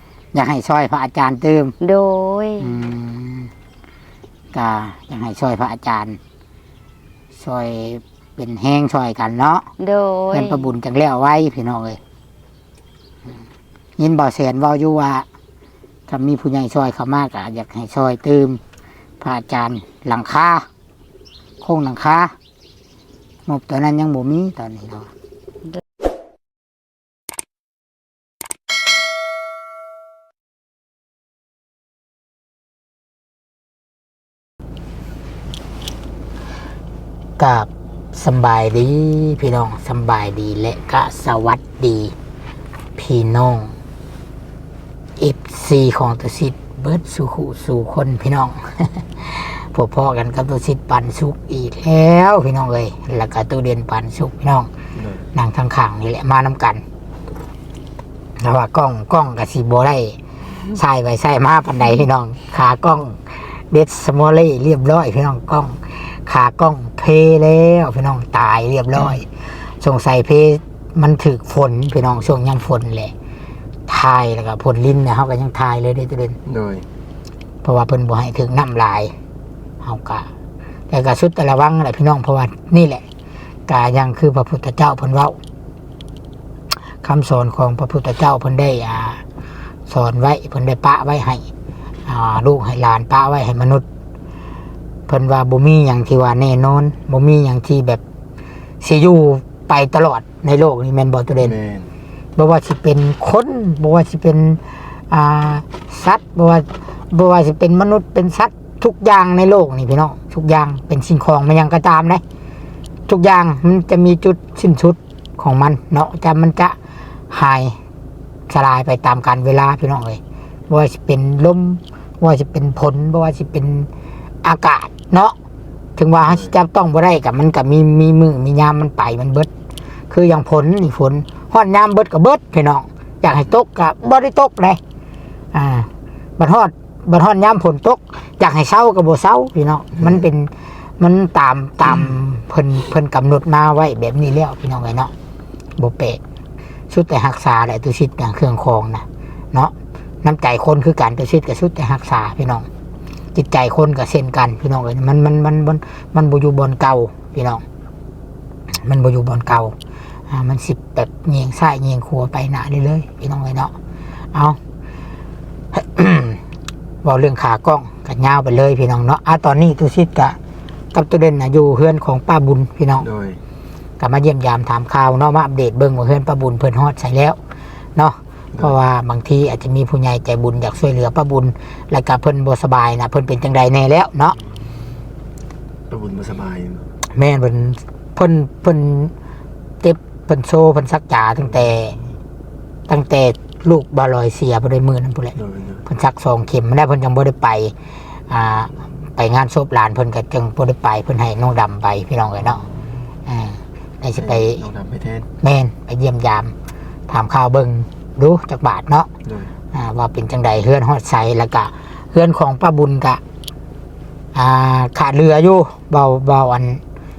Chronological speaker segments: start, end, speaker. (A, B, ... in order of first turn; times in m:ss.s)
0:00.3-0:01.7 A
0:01.8-0:02.8 B
0:02.6-0:03.5 A
0:04.5-0:06.2 A
0:07.3-0:09.6 A
0:09.8-0:10.7 B
0:10.3-0:12.0 A
0:14.0-0:15.2 A
0:16.1-0:18.6 A
0:19.2-0:20.6 A
0:21.6-0:22.3 A
0:23.4-0:25.1 A
0:37.4-0:42.1 A
0:43.0-0:43.7 A
0:45.2-0:54.7 A
0:55.0-0:55.3 C
0:55.3-0:56.8 A
0:58.4-1:13.1 A
1:13.9-1:16.4 A
1:16.5-1:16.8 C
1:17.6-1:19.1 A
1:19.8-1:20.3 A
1:20.9-1:23.0 A
1:23.7-1:25.4 A
1:27.0-1:29.2 A
1:29.9-1:31.5 A
1:32.0-1:33.8 A
1:35.1-1:38.0 A
1:38.8-1:41.6 A
1:41.4-1:41.9 C
1:42.4-1:52.2 A
1:53.1-1:56.8 A
1:57.3-1:57.8 A
1:58.5-2:03.9 A
2:04.4-2:05.3 A
2:06.0-2:09.5 A
2:10.1-2:14.8 A
2:15.5-2:25.1 A
2:25.8-2:26.2 A
2:26.9-2:32.6 A
2:33.3-2:37.6 A
2:38.7-2:39.7 A
2:40.3-2:43.7 A
2:44.3-2:44.6 A
2:45.7-2:46.4 A
2:47.0-2:50.4 A
2:50.9-2:53.1 A
2:53.0-2:53.4 C
2:54.0-2:57.4 A
2:58.0-3:04.4 A
3:05.9-3:06.8 C
3:07.1-3:09.1 A
3:09.8-3:12.0 A
3:12.9-3:17.7 A
3:15.4-3:15.8 C
3:18.3-3:22.6 A
3:23.3-3:24.6 A
3:24.2-3:25.3 C
3:25.4-3:26.5 A
3:27.1-3:29.1 A
3:29.2-3:29.5 C
3:29.7-3:33.2 A
3:34.3-3:36.8 A